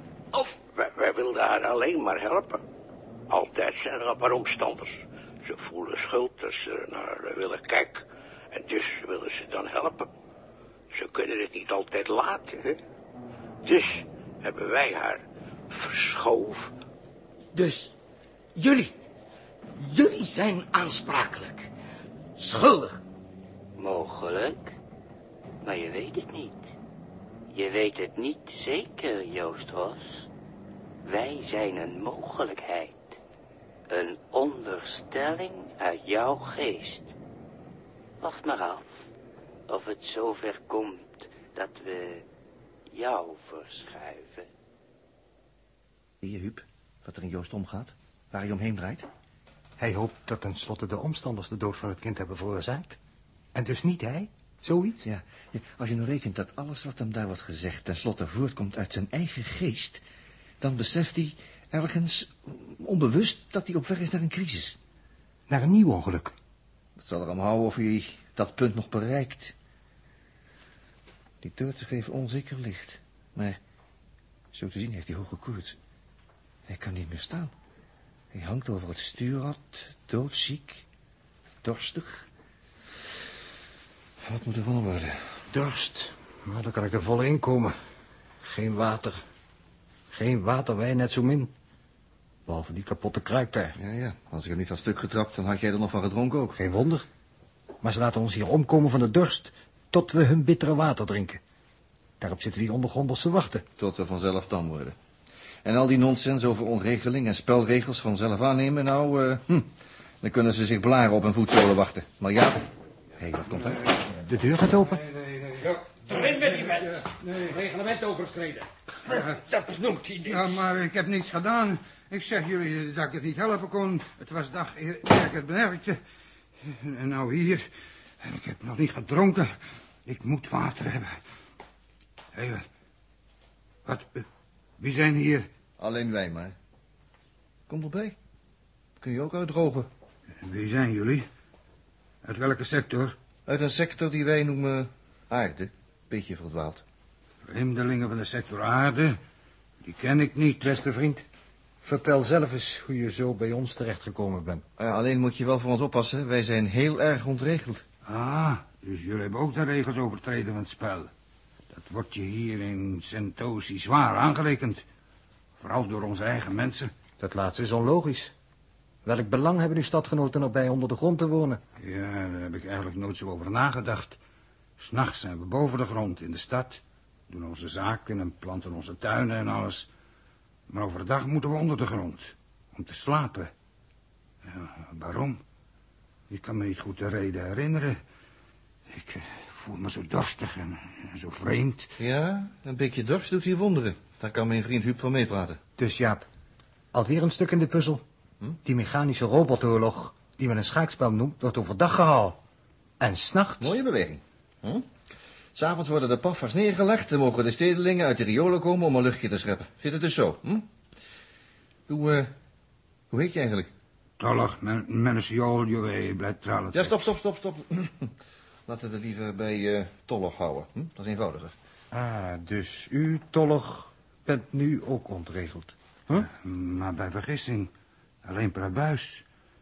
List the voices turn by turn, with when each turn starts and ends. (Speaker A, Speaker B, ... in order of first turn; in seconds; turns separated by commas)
Speaker A: 0.3-0.6, Speaker B: 0.8-2.6, Speaker B: 3.3-10.1, Speaker B: 10.9-12.8, Speaker B: 13.6-16.7, Speaker A: 17.5-17.9, Speaker A: 18.6-18.9, Speaker A: 19.8-21.7, Speaker A: 22.4-23.0, Speaker C: 23.8-24.7, Speaker C: 25.6-26.7, Speaker C: 27.5-30.3, Speaker C: 31.0-33.1, Speaker C: 33.9-37.1, Speaker C: 38.2-38.9, Speaker C: 39.7-42.2, Speaker C: 42.9-44.5, Speaker D: 46.2-49.1, Speaker E: 49.8-53.0, Speaker E: 53.5-55.0, Speaker D: 55.0-60.0, Speaker D: 60.6-64.8, Speaker E: 65.5-66.3, Speaker D: 67.0-69.5, Speaker D: 71.4-73.6, Speaker D: 74.5-75.8, Speaker D: 76.7-77.5, Speaker D: 78.3-80.8, Speaker D: 81.6-82.2, Speaker D: 84.2-85.4, Speaker E: 85.5-87.7, Speaker E: 88.4-89.2, Speaker E: 90.1-91.5, Speaker E: 92.5-93.8, Speaker D: 93.8-96.6, Speaker E: 96.5-97.0, Speaker E: 97.8-101.4, Speaker E: 102.2-103.6, Speaker D: 103.8-104.9, Speaker D: 105.6-109.7, Speaker D: 110.2-112.6, Speaker D: 113.2-113.8, Speaker E: 114.1-115.0, Speaker F: 114.8-117.5, Speaker E: 115.6-120.7, Speaker F: 120.2-126.0, Speaker F: 126.6-127.7, Speaker F: 128.2-129.5, Speaker F: 130.0-131.2, Speaker F: 132.3-132.7, Speaker F: 133.8-134.3, Speaker F: 134.8-135.5, Speaker D: 135.8-136.5, Speaker D: 137.7-138.1, Speaker D: 139.0-139.9, Speaker F: 140.4-141.3, Speaker F: 142.2-143.2, Speaker D: 143.4-146.8, Speaker F: 147.4-149.2, Speaker F: 149.8-150.7, Speaker E: 150.6-151.2, Speaker E: 151.8-154.6, Speaker D: 154.8-157.8, Speaker F: 158.0-161.1, Speaker F: 161.7-164.8, Speaker F: 165.6-166.9, Speaker E: 167.2-168.3, Speaker E: 169.0-171.6, Speaker F: 171.8-174.2, Speaker F: 174.8-179.9, Speaker F: 180.7-183.5, Speaker F: 184.4-185.4, Speaker F: 186.3-188.0, Speaker F: 188.9-191.9, Speaker D: 192.0-195.6, Speaker E: 195.8-196.2, Speaker E: 196.9-198.0, Speaker E: 198.6-202.4, Speaker E: 203.0-203.8, Speaker D: 203.6-204.8, Speaker D: 205.5-210.7, Speaker D: 211.9-212.3, Speaker D: 213.1-213.7, Speaker F: 214.2-217.1, Speaker D: 216.7-218.1, Speaker D: 218.7-221.5, Speaker E: 221.9-226.3, Speaker F: 226.2-227.7, Speaker F: 228.2-229.2